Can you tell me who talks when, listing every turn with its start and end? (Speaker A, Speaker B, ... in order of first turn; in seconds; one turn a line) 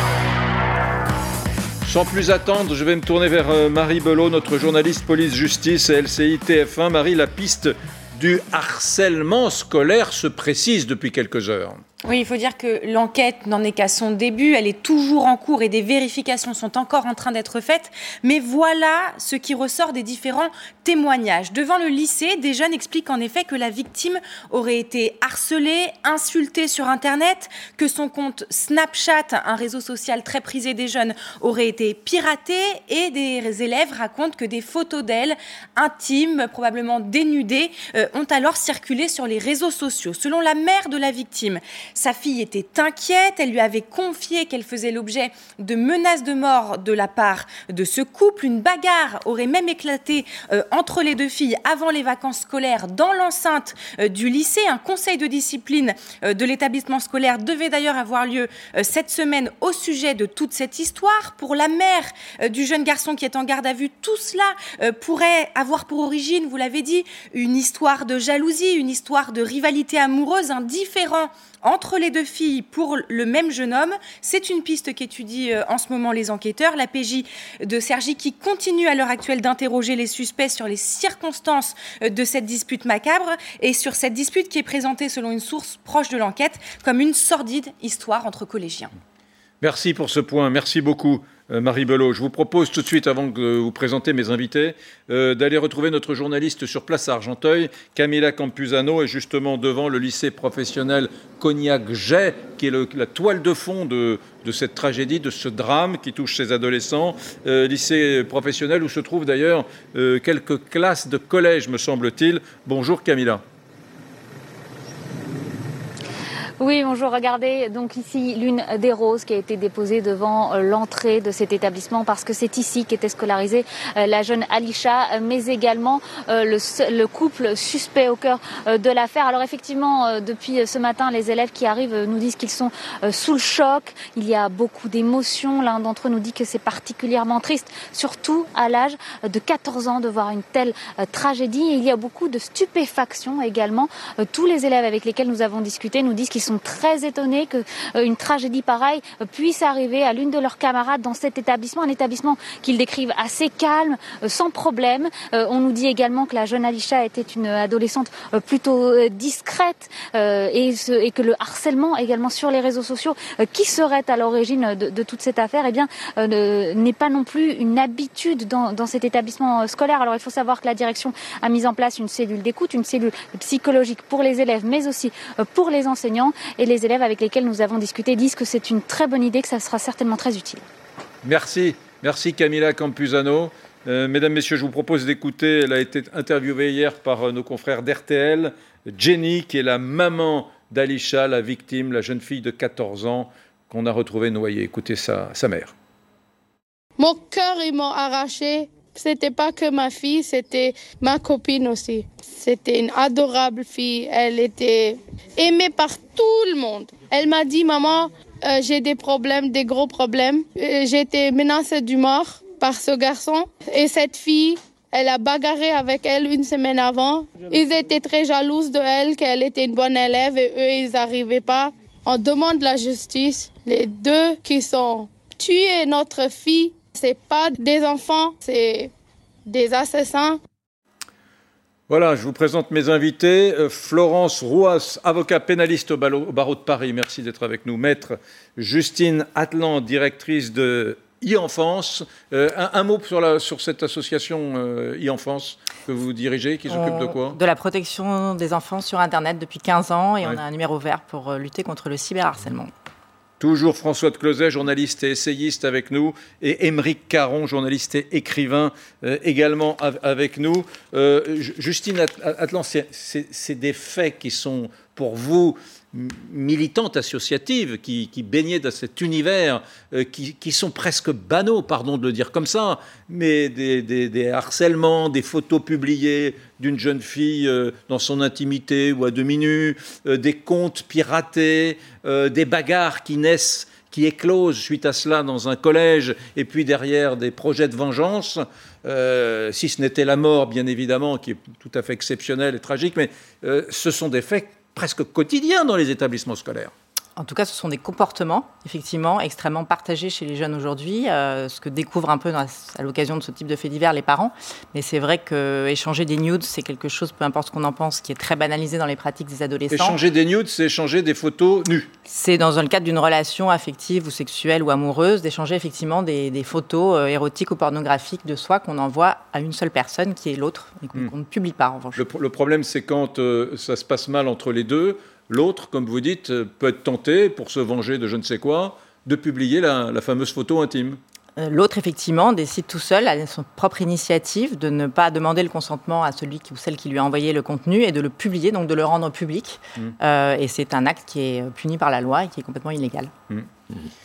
Speaker A: 1.8-11.8
Speaker B: 12.0-88.9
Speaker A: 89.6-113.4
Speaker C: 116.6-180.7
Speaker A: 181.2-195.7
Speaker D: 197.0-228.9
Speaker D: 229.5-230.4
Speaker A: 231.9-247.4
Speaker E: 246.7-252.7
Speaker A: 253.4-296.7
Speaker E: 297.1-310.0
Speaker A: 309.7-311.9
Speaker E: 312.1-322.0
Speaker A: 321.9-331.0
Speaker E: 331.4-343.1